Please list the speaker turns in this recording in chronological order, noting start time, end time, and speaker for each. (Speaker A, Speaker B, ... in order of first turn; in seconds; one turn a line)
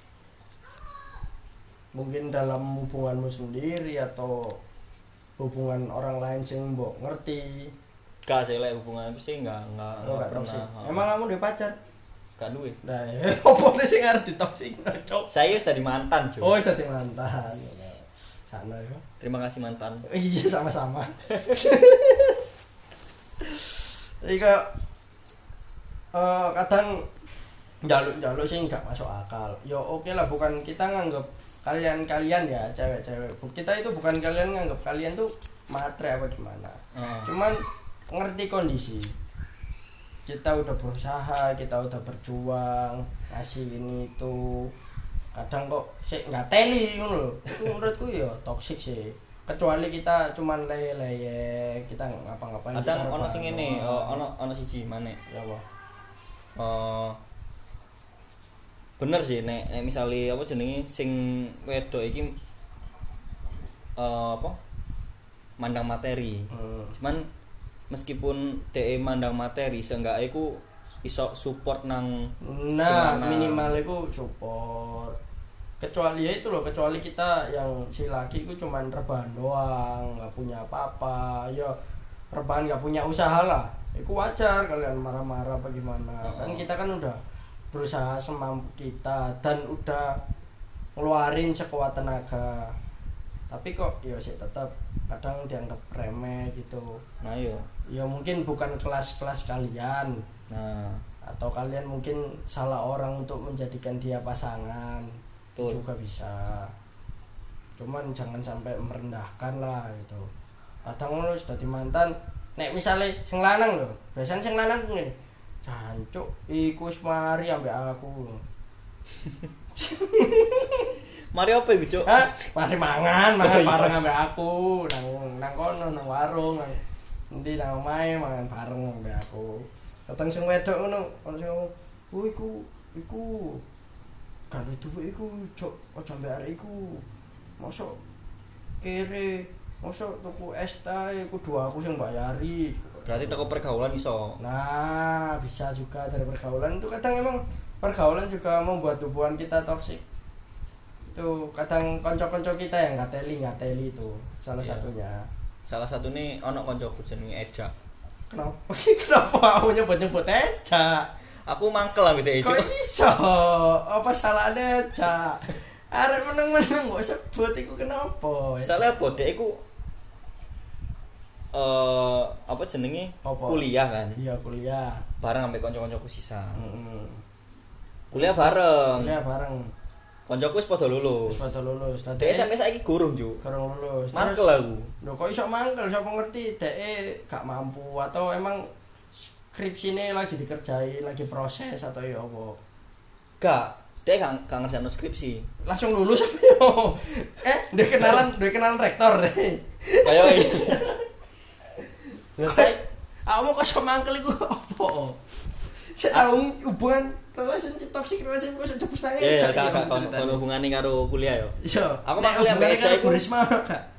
Speaker A: 1.9-4.6
Speaker A: 5.4-7.7
Speaker B: 8.2-11.1
Speaker A: 10.0-11.8
Speaker B: 12.4-12.8
Speaker A: 12.8-15.3
Speaker B: 15.3-16.6
Speaker A: 16.4-19.0
Speaker B: 19.2-20.1
Speaker A: 20.1-22.4
Speaker A: 23.4-24.7
Speaker A: 26.1-27.0
Speaker A: 27.8-37.6
Speaker B: 36.9-37.3
Speaker A: 38.1-39.1
Speaker A: 40.3-44.7
Speaker A: 45.3-54.2
Speaker B: 52.7-55.2
Speaker A: 55.3-55.6
Speaker B: 56.6-57.2
Speaker B: 59.0-62.4
Speaker B: 64.0-64.6
Speaker B: 65.6-67.3
Speaker A: 66.5-67.0
Speaker B: 67.9-73.7
Speaker A: 72.4-75.2
Speaker A: 75.8-81.8
Speaker A: 82.3-87.2
Speaker B: 86.2-86.7
Speaker A: 87.7-90.2
Speaker A: 91.0-92.7
Speaker A: 93.5-97.0
Speaker B: 97.2-97.7
Speaker A: 97.9-100.2
Speaker B: 100.5-101.0
Speaker A: 101.3-106.7
Speaker B: 105.6-105.8
Speaker A: 107.8-110.3
Speaker A: 110.8-115.1
Speaker A: 115.7-118.4
Speaker A: 119.8-120.9
Speaker B: 121.3-122.3
Speaker A: 122.0-126.8
Speaker B: 123.4-124.0
Speaker A: 127.3-133.6
Speaker A: 134.5-137.0
Speaker A: 137.6-138.0
Speaker A: 138.8-143.5
Speaker B: 143.1-144.4
Speaker A: 144.4-150.0
Speaker A: 151.1-155.3
Speaker B: 154.6-154.9
Speaker B: 155.7-157.7
Speaker A: 158.3-161.1
Speaker B: 161.5-162.7
Speaker A: 162.4-169.0
Speaker B: 168.6-169.6
Speaker B: 171.5-174.2
Speaker A: 173.2-173.7
Speaker A: 174.2-175.0
Speaker B: 175.2-176.6
Speaker A: 176.6-177.2
Speaker B: 178.1-179.2
Speaker A: 178.1-179.7
Speaker B: 180.3-181.5
Speaker A: 181.3-182.5
Speaker B: 182.2-183.4
Speaker A: 183.4-184.5
Speaker B: 184.1-184.9
Speaker A: 185.0-188.7
Speaker A: 189.2-192.6
Speaker B: 193.4-195.4
Speaker A: 195.7-201.0
Speaker B: 200.0-200.9
Speaker B: 202.4-202.8
Speaker A: 202.4-205.2
Speaker A: 205.9-210.4
Speaker B: 209.2-213.2
Speaker A: 211.6-213.8